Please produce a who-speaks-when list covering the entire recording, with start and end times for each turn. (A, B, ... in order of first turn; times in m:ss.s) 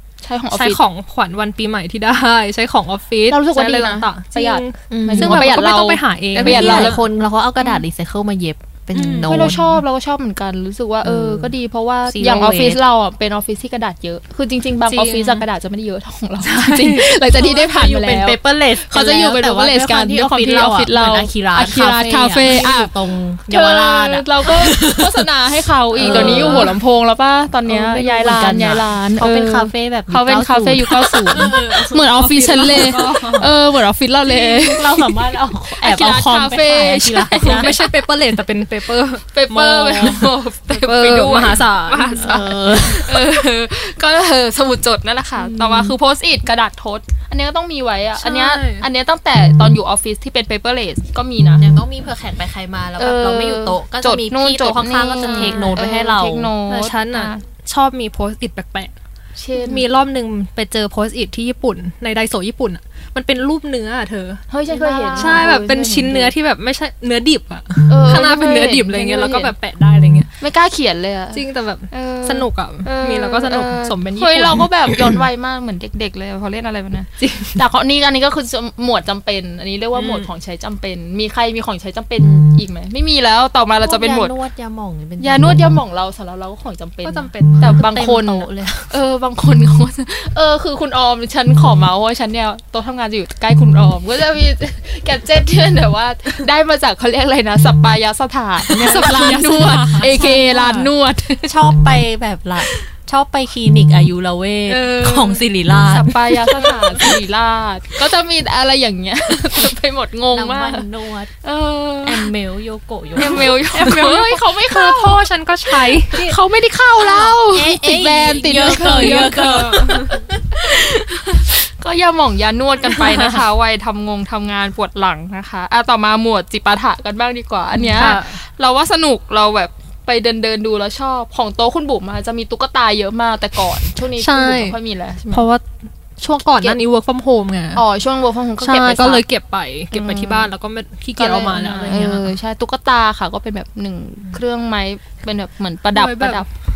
0:00.2-0:00.8 A
0:00.5-0:07.0 B
0:03.3-0:07.0 A
0:04.9-0:05.5 C
0:06.4-0:09.8 C
0:07.6-0:07.8 A
0:08.9-0:09.5 B
0:09.2-0:23.0 A
0:11.0-0:11.5 C
0:12.1-0:12.8 C
0:14.8-0:15.5 B
0:16.4-0:17.4 B
0:17.3-0:25.3 C
0:23.5-0:37.9 A
0:26.0-0:26.8 C
0:26.0-0:26.8 B
0:27.7-0:33.0 C
0:31.3-0:33.5 B
0:34.3-0:37.8 C
0:37.3-0:42.3 B
0:39.3-0:51.6 A
0:42.2-0:43.3 C
0:45.4-0:46.0 C
0:48.2-0:48.9 B
0:51.6-0:56.5 C
0:53.0-0:57.4 A
0:55.2-0:55.7 B
0:56.7-0:58.9 B
0:59.4-0:59.8 A
0:59.6-1:04.4 B
1:04.5-1:06.4 A
1:04.7-1:05.5 C
1:05.2-1:10.3 B
1:07.9-1:09.5 A
1:10.4-1:24.4 A
1:11.3-1:15.1 B
1:17.2-1:17.6 B
1:19.9-1:20.3 B
1:23.8-1:25.7 C
1:25.2-1:41.6 A
1:27.0-1:27.8 B
1:27.6-1:29.0 C
1:38.7-1:40.4 B
1:38.8-1:40.9 C
1:41.4-1:46.1 C
1:44.7-1:45.4 B
1:45.9-1:50.9 A
1:46.3-1:47.1 B
1:50.3-1:51.3 C
1:51.4-1:52.3 A
1:52.0-1:54.0 C
1:53.2-2:15.5 A
1:53.2-1:56.4 B
1:57.0-2:00.4 C
1:58.5-2:00.2 B
2:02.9-2:03.4 B
2:07.7-2:08.4 B
2:14.2-2:14.8 B
2:15.3-2:15.6 B
2:16.2-2:17.8 B
2:17.7-2:19.2 A
2:18.6-2:22.3 B
2:19.9-2:20.5 A
2:21.2-2:26.5 A
2:25.9-2:26.5 B